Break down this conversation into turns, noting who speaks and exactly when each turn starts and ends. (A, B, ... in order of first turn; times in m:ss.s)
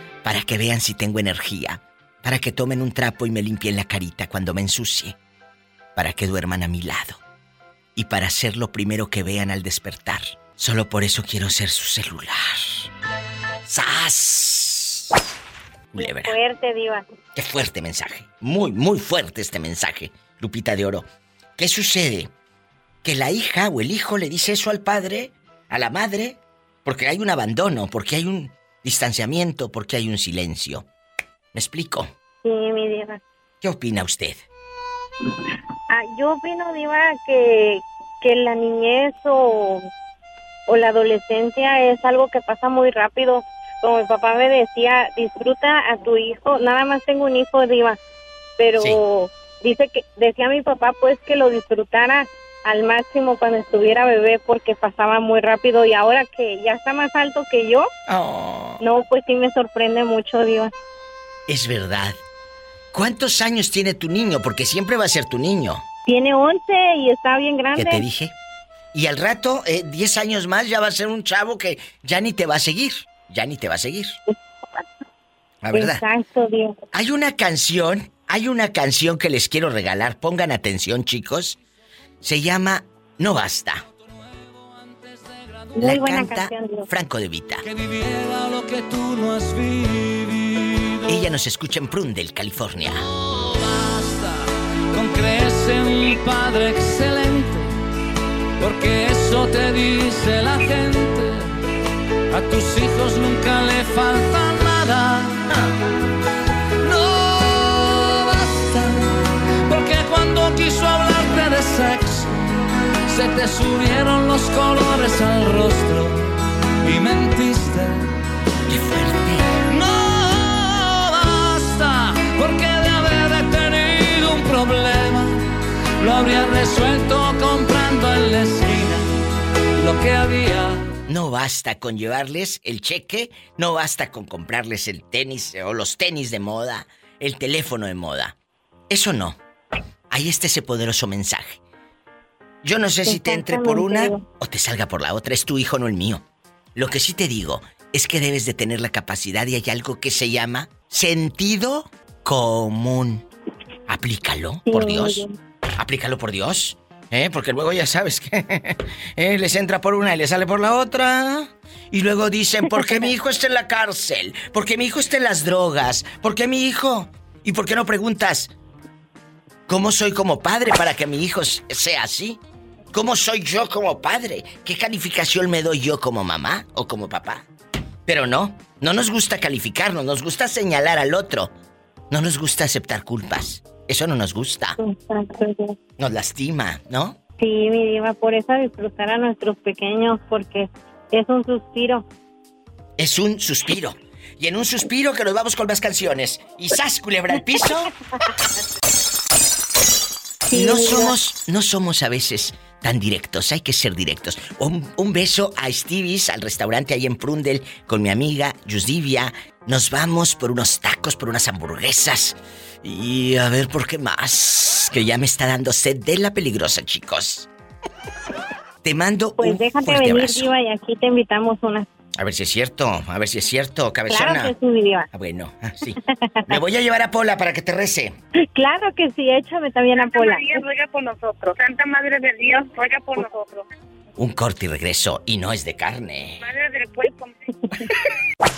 0:00.2-0:05.2 A
0:06.0-0:07.2 A
0:08.0-0:12.9 A
0:13.6-0:15.1 A
0:15.9-0:16.4 A
0:16.0-0:17.1 B
0:17.3-0:21.1 A
0:21.6-0:22.3 A
0:23.0-0:30.9 A
0:31.5-0:32.1 A
0:32.4-0:33.2 B
0:33.6-0:34.4 A
0:35.9-0:39.9 B
0:40.7-0:48.0 B
0:48.6-0:57.9 B
0:58.1-0:58.8 A
0:58.8-1:00.7 B
1:01.5-1:02.2 A
1:02.9-1:05.8 A
1:06.1-1:08.0 B
1:07.8-1:08.3 A
1:08.9-1:14.2 A
1:15.6-1:16.0 A
1:15.7-1:16.8 B
1:16.9-1:21.6 A
1:22.2-1:23.8 A
1:24.0-1:26.0 C
1:25.8-1:26.9 B
1:25.8-1:27.6 A
1:27.6-1:31.2 C
1:31.1-1:33.1 A
1:33.2-1:37.8 C
1:38.6-1:41.6 C
1:42.3-1:45.5 C
1:46.8-1:52.4 C
1:53.1-1:58.1 C
1:58.7-1:59.5 A
1:59.7-2:05.4 C
2:06.0-2:09.2 C
2:09.8-2:10.9 C
2:11.1-2:18.4 A
2:18.9-2:19.4 A
2:20.1-2:21.6 A
2:22.6-2:26.2 A
2:23.1-2:24.2 B
2:26.8-2:33.2 A
2:33.9-2:35.3 A
2:34.6-2:35.3 B
2:35.8-2:48.5 A
2:49.7-2:52.4 A
2:52.9-2:57.4 A
2:58.1-3:01.5 A
3:02.1-3:04.8 A
3:04.8-3:05.7 B
3:06.0-3:07.2 A
3:07.4-3:12.0 B
3:13.0-3:17.9 A
3:20.5-3:21.2 B
3:20.5-3:37.5 A
3:38.8-3:40.5 A
3:39.4-3:41.8 B
3:42.2-3:44.5 A
3:44.1-3:45.1 B
3:45.1-3:48.2 A
3:48.5-3:50.6 B
3:50.0-3:53.6 D
3:54.2-3:56.5 A
3:56.4-3:57.3 D